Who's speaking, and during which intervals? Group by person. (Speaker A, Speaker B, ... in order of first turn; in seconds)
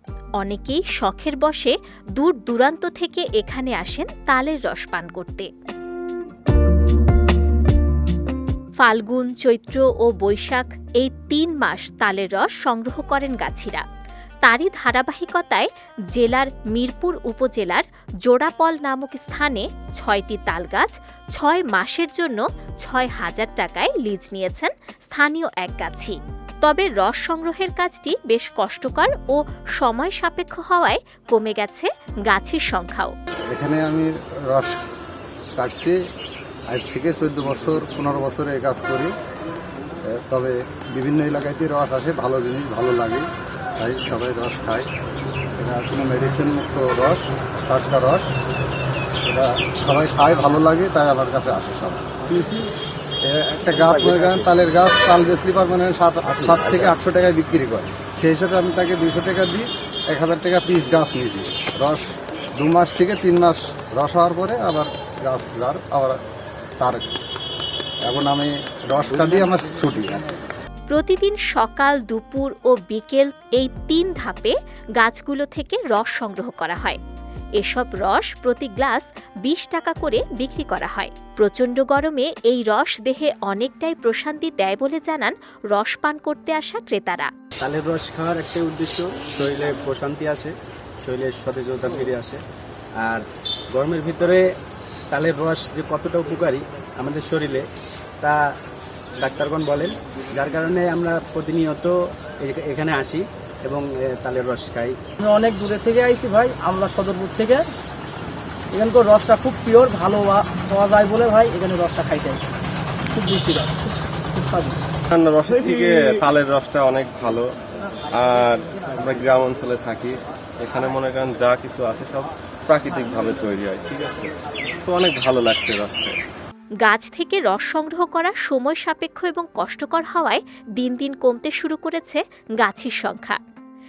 Speaker A: 0.4-5.5, 8.8-13.8, 14.4-33.1, 70.9-77.0, 77.6-87.3, 126.8-133.4
Speaker B: 33.5-34.8, 35.6-36.0, 36.7-39.1, 40.1-43.2, 43.8-44.9, 45.6-48.3, 49.2-52.6, 53.2-62.0, 62.6-66.2, 66.8-67.0, 68.0-70.2
Speaker C: 87.6-90.5, 91.0-92.4, 93.0-94.4, 95.1-97.6, 99.2-101.9, 102.4-104.9
Speaker D: 105.2-107.7, 108.7-112.6, 113.1-114.9
Speaker E: 115.1-117.5, 118.1-124.3, 124.8-126.2